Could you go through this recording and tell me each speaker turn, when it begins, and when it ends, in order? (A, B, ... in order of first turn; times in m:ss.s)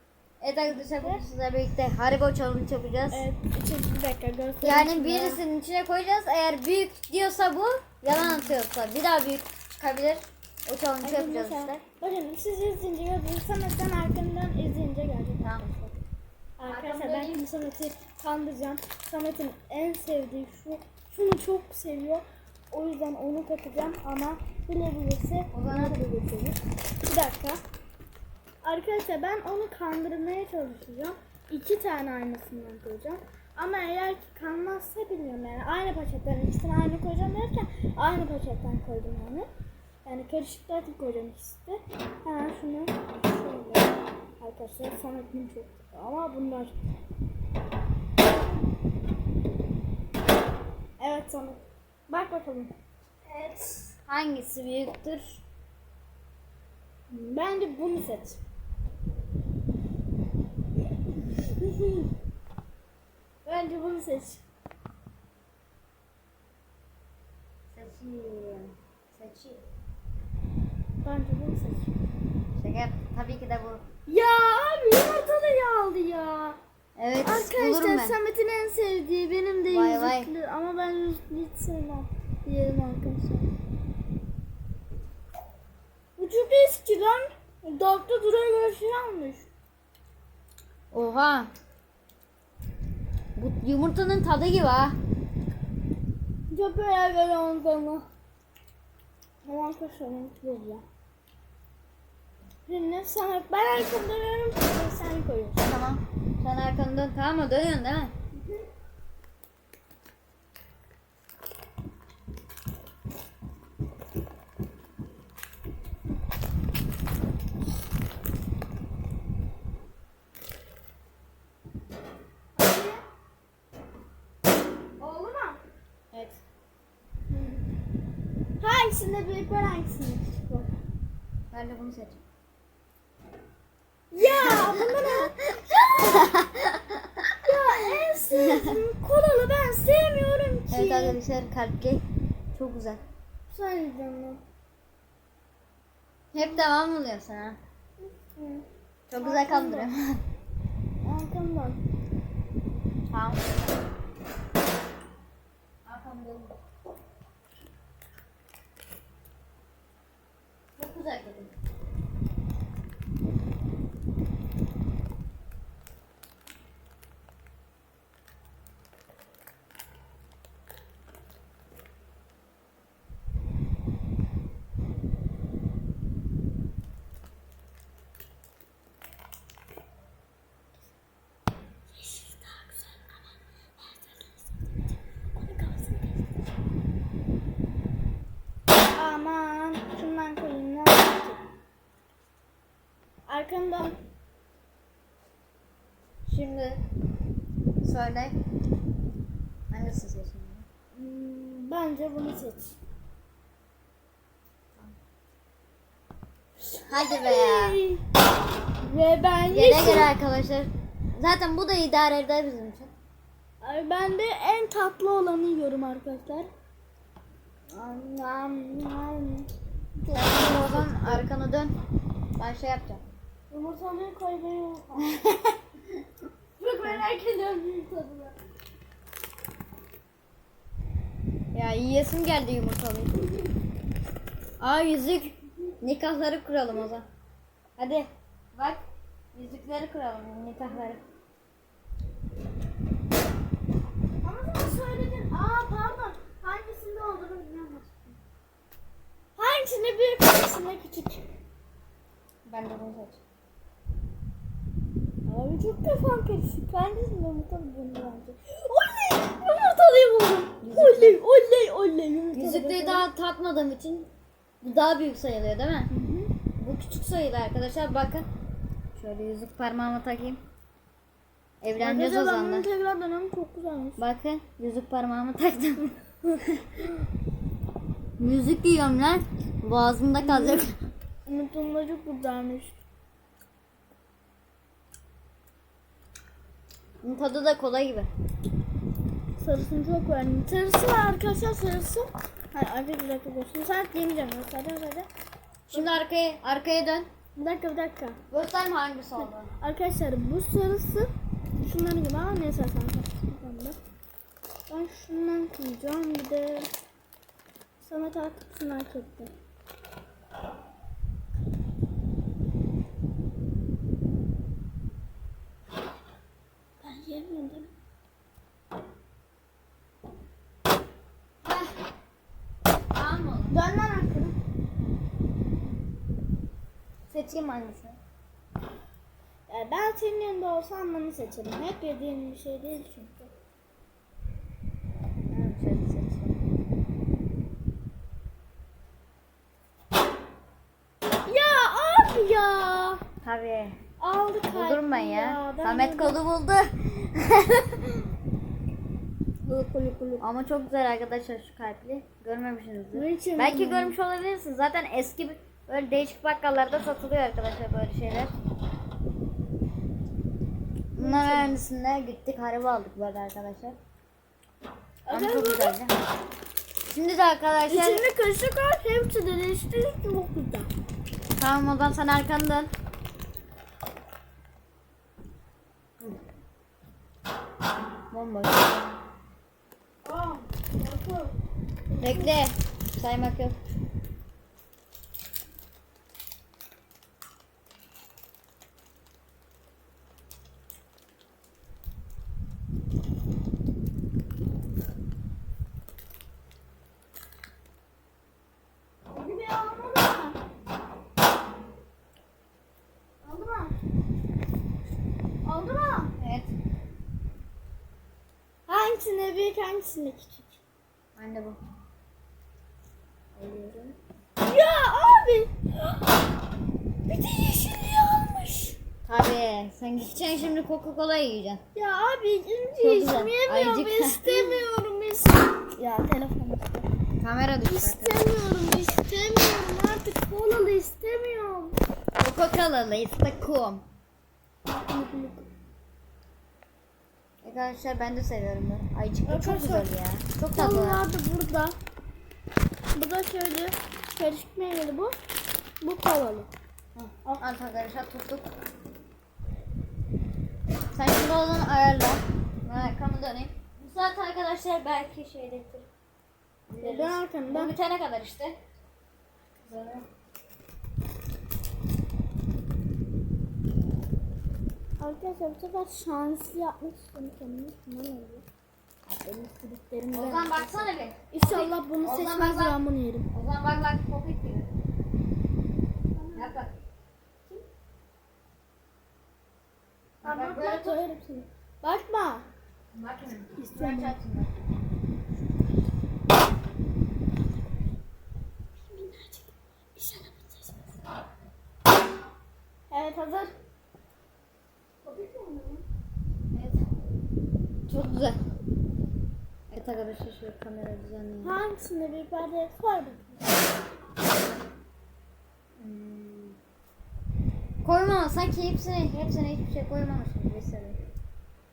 0:00.4-0:03.3 A
0:00.8-0:01.2 B
0:03.1-0:05.4 B
0:04.6-0:11.8 A
0:08.2-0:08.6 B
0:11.0-0:15.9 B
0:15.4-0:15.7 A
0:16.6-0:27.6 B
0:16.7-0:17.4 A
0:25.5-0:26.0 A
0:28.6-0:39.5 B
0:40.0-0:46.7 B
0:51.0-0:52.7 B
0:53.3-0:54.0 B
0:54.1-0:55.4 A
0:57.1-0:58.4 B
1:01.3-1:02.1 B
1:03.4-1:04.4 B
1:07.7-1:09.6 A
1:11.0-1:11.9 B
1:12.6-1:13.8 A
1:14.1-1:16.6 B
1:17.0-1:18.2 A
1:17.2-1:23.5 B
1:19.7-1:20.3 A
1:26.2-1:29.5 B
1:30.9-1:31.5 A
1:33.4-1:35.0 A
1:36.5-1:38.1 B
1:39.4-1:40.8 B
1:42.7-1:45.6 B
1:45.6-1:48.1 A
2:02.5-2:03.0 B
2:05.0-2:05.6 B
2:06.1-2:06.4 A
2:07.3-2:07.6 B
2:08.6-2:10.7 B
2:11.5-2:12.2 A
2:14.1-2:16.3 B
2:14.2-2:17.5 A
2:17.4-2:21.2 B
2:18.3-2:18.8 A
2:20.7-2:22.0 A
2:22.5-2:23.0 A
2:23.5-2:24.4 B
2:26.3-2:27.6 A
2:28.0-2:28.7 B
2:29.1-2:30.2 A
2:29.2-2:29.9 B
2:31.0-2:31.8 B
2:33.1-2:33.8 A
2:35.8-2:36.5 A
2:40.8-2:41.5 A
3:01.9-3:03.2 B
3:03.8-3:04.3 B
3:05.3-3:06.2 B
3:08.9-3:11.4 B
3:13.3-3:14.0 B
3:16.2-3:16.8 A
3:17.8-3:18.3 A
3:19.7-3:20.7 A
3:20.9-3:22.8 B
3:26.7-3:28.0 B
3:26.9-3:27.8 A
3:28.8-3:30.1 B
3:29.5-3:32.9 A
3:33.6-3:36.5 B
3:37.7-3:41.2 B
3:40.1-3:41.7 A
3:42.4-3:43.0 A
3:43.5-3:45.1 B
3:45.1-3:45.6 A
3:46.6-3:48.4 B
3:51.5-3:53.2 A
3:54.6-3:57.0 A
3:57.8-3:58.8 A
3:59.3-4:01.0 A
4:04.2-4:08.2 B
4:09.4-4:11.2 B
4:12.5-4:13.2 A
4:15.2-4:23.1 B
4:20.6-4:21.2 A
4:22.3-4:24.1 A
4:24.6-4:25.9 A
4:25.9-4:26.3 B
4:26.6-4:28.2 A
4:29.0-4:30.4 A
4:31.6-4:32.7 A
4:31.8-4:34.0 B
4:34.0-4:35.9 A
4:36.5-4:36.8 A
4:38.2-4:40.8 A
4:40.2-4:40.7 B
4:41.2-4:42.8 B
4:47.0-4:48.1 A
4:49.4-4:55.1 B
4:55.7-4:57.1 A
4:57.4-4:58.2 B
4:58.3-4:59.5 A
4:59.6-5:03.8 B
5:04.7-5:06.7 B
5:07.8-5:09.3 B
5:16.8-5:17.7 B
5:21.4-5:21.7 A
5:22.9-5:23.6 A
5:23.5-5:24.4 B
5:27.1-5:28.0 A
5:29.5-5:33.3 B
5:35.3-5:36.4 A
5:41.3-5:43.0 B
5:43.2-5:43.8 A
5:44.0-5:46.2 B
5:44.5-5:48.0 A
5:49.4-5:50.3 B
5:50.2-5:58.3 A
5:52.9-5:54.0 B
6:00.9-6:03.8 A
6:01.0-6:01.6 B
6:05.0-6:05.8 B
6:05.1-6:05.9 A
6:06.9-6:08.0 A
6:07.7-6:10.7 B
6:11.4-6:12.7 A
6:18.1-6:18.9 A
6:20.0-6:21.4 B
6:21.9-6:22.3 B
6:22.0-6:23.6 A
6:39.1-6:40.4 B
6:43.2-6:43.8 B
6:45.4-6:46.1 B
6:46.2-6:46.5 A
6:48.7-6:50.6 B
6:51.2-6:51.6 A
6:53.4-6:54.0 A
6:54.4-6:56.1 B
6:57.1-6:58.8 B
6:59.0-7:01.6 A
7:01.8-7:06.9 B
7:02.8-7:04.7 A
7:07.2-7:08.2 A
7:07.6-7:11.8 B
7:12.2-7:13.9 A
7:14.7-7:15.5 B
7:17.4-7:21.0 A
7:19.2-7:19.9 B
7:20.6-7:21.8 B
7:22.9-7:25.2 B
7:25.8-7:26.5 B
7:26.9-7:28.5 A
7:30.9-7:35.9 A
7:36.7-7:38.6 A
7:36.8-7:37.8 B
7:39.6-7:40.1 A
7:45.0-7:48.5 B
7:49.1-7:53.3 B
7:50.1-7:52.8 A
7:53.3-7:54.7 A
7:56.2-7:56.6 B
7:56.4-7:56.7 A
8:00.2-8:01.0 A
8:00.2-8:02.5 B
8:02.9-8:04.7 A
8:03.6-8:04.2 B
8:08.9-8:10.9 B
8:12.9-8:13.6 B
8:15.0-8:15.8 B
8:16.5-8:16.8 A
8:17.9-8:18.4 A
8:19.7-8:21.6 A
8:21.4-8:23.5 B
8:25.8-8:26.6 A
8:27.8-8:31.0 A